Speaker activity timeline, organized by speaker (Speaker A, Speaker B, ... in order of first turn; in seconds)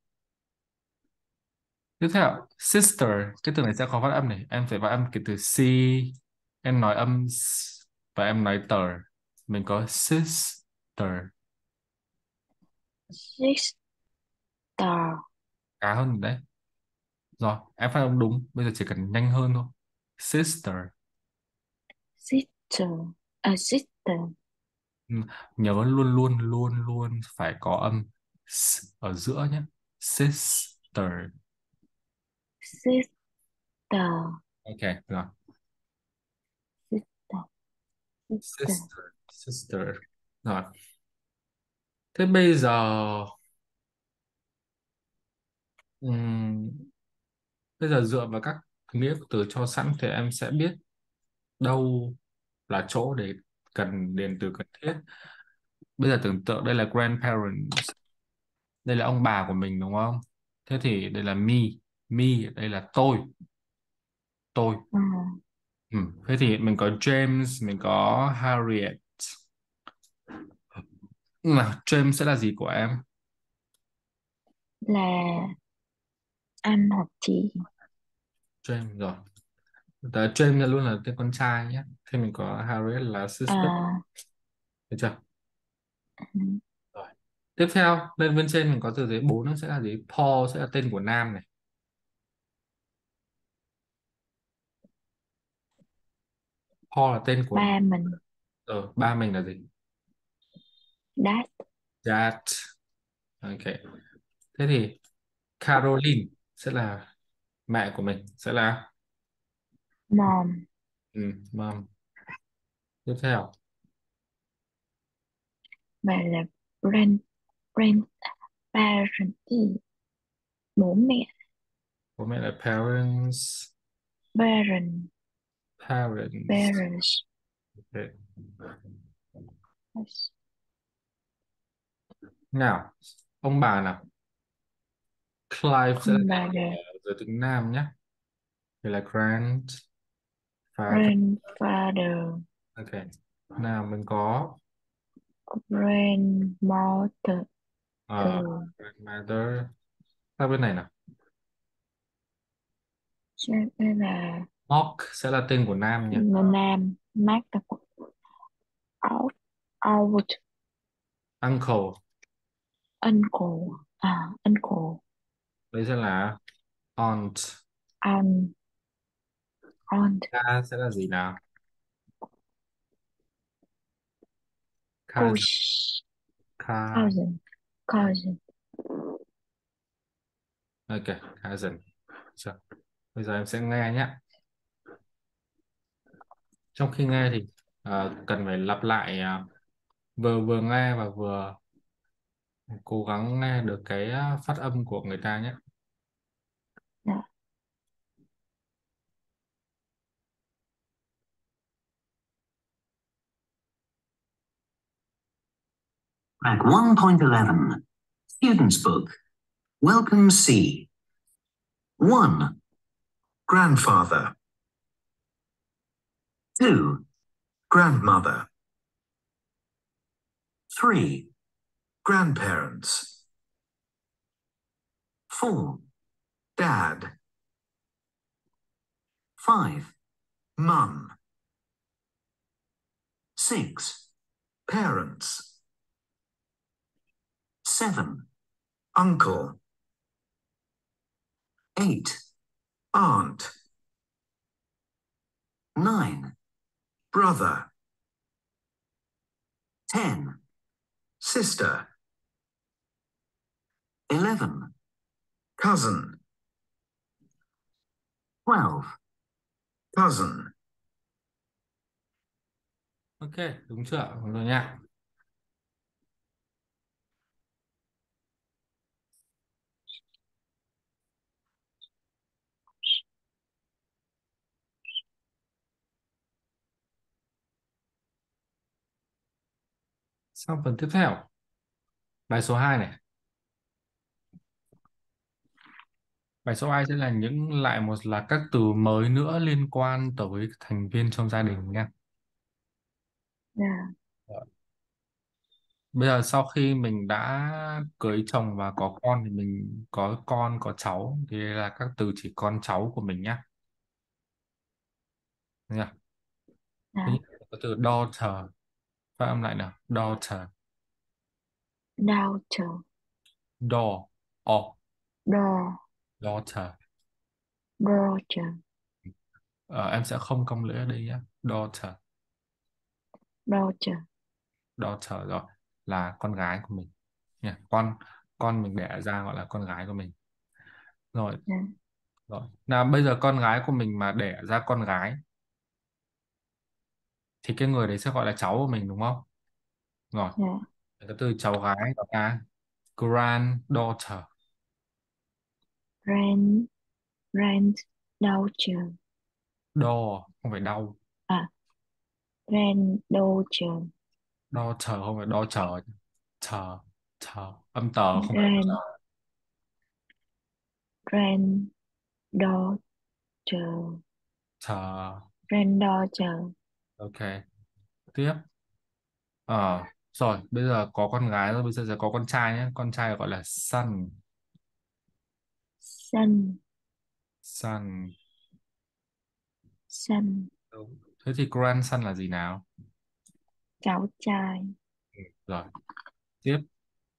Speaker A: 2.0-11.3, 15.8-16.4, 17.4-20.9, 25.1-31.3, 34.6-35.3, 38.4-40.7, 42.1-43.3, 46.0-46.9, 47.8-50.8, 51.6-52.2, 52.7-55.0, 56.0-57.9, 58.8-63.3, 64.5-64.8, 65.9-69.3, 71.4-73.0, 78.6-79.2, 80.0-83.7, 84.9-85.2, 86.9-91.5, 96.9-97.8, 98.7-99.7, 102.0-102.7, 103.4-103.8, 104.5-105.0, 105.6-107.1, 107.7-108.9, 111.1-111.9, 113.0-113.5, 122.2-123.7, 125.8-126.8, 127.9-128.6, 132.5-134.0, 135.5-137.9, 138.8-139.8, 140.7-141.1, 142.8-144.6, 148.1-149.7, 150.4-150.9, 154.7-156.2, 161.4-162.0, 165.7-166.4, 167.0-167.6, 170.3-171.4, 175.1-175.5, 176.6-177.1, 180.9-181.8, 183.1-184.2, 186.7-189.4, 190.2-191.6, 192.7-195.6, 263.2-264.8, 280.4-281.3, 282.3-283.0, 286.4-291.9, 295.9-303.4, 307.1-308.5, 309.2-310.5, 313.6-314.8, 316.2-316.7, 319.7-322.0, 324.8-326.9, 327.4-330.1, 331.1-331.4, 332.3-335.2, 337.4-339.2, 341.0-342.4, 343.0-344.3, 349.7-350.9, 354.5-355.9, 356.4-358.6, 364.6-365.2, 367.0-367.4, 368.1-368.4, 369.5-374.1, 377.4-378.1, 380.7-382.6, 385.2-385.7
Speaker B: 13.1-13.8, 14.8-15.2, 22.2-24.3, 32.6-33.1, 33.9-34.4, 36.9-37.5, 38.3-38.9, 64.9-65.4, 74.8-75.5, 76.6-77.6, 83.5-84.0, 86.3-86.6, 97.5-98.2, 101.2-101.6, 110.1-110.7, 116.0-117.2, 117.8-118.1, 118.7-119.8, 120.8-121.3, 124.3-125.1, 126.5-127.2, 129.9-130.3, 136.0-136.8, 140.9-142.4, 145.5-147.4, 148.2-148.7, 153.4-154.5, 156.1-157.8, 159.0-160.4, 163.0-165.0, 168.0-168.5, 169.9-170.3, 175.2-176.0, 176.9-178.4, 293.6-293.9, 312.0-312.8, 315.3-315.8, 317.8-318.6, 323.5-324.0, 340.4-340.6, 346.0-346.7, 347.3-348.9, 352.5-353.9, 358.1-358.8, 361.1-361.7, 362.3-362.8, 363.4-364.0, 365.5-366.5, 375.8-376.6, 379.9-380.5, 383.8-384.7
Speaker C: 206.4-209.2, 209.8-210.9, 212.0-212.6, 216.6-217.0, 220.7-221.3, 225.3-225.8, 229.4-229.9, 233.3-234.1, 237.6-238.3, 241.8-242.2, 245.7-246.3, 249.9-250.4, 254.1-254.7, 258.4-258.9
Speaker D: 213.5-214.3, 217.7-218.5, 222.0-223.2, 226.6-227.1, 230.6-231.1, 234.7-235.5, 238.9-239.6, 242.9-243.5, 247.1-247.7, 251.2-251.9, 255.6-256.2, 259.9-260.5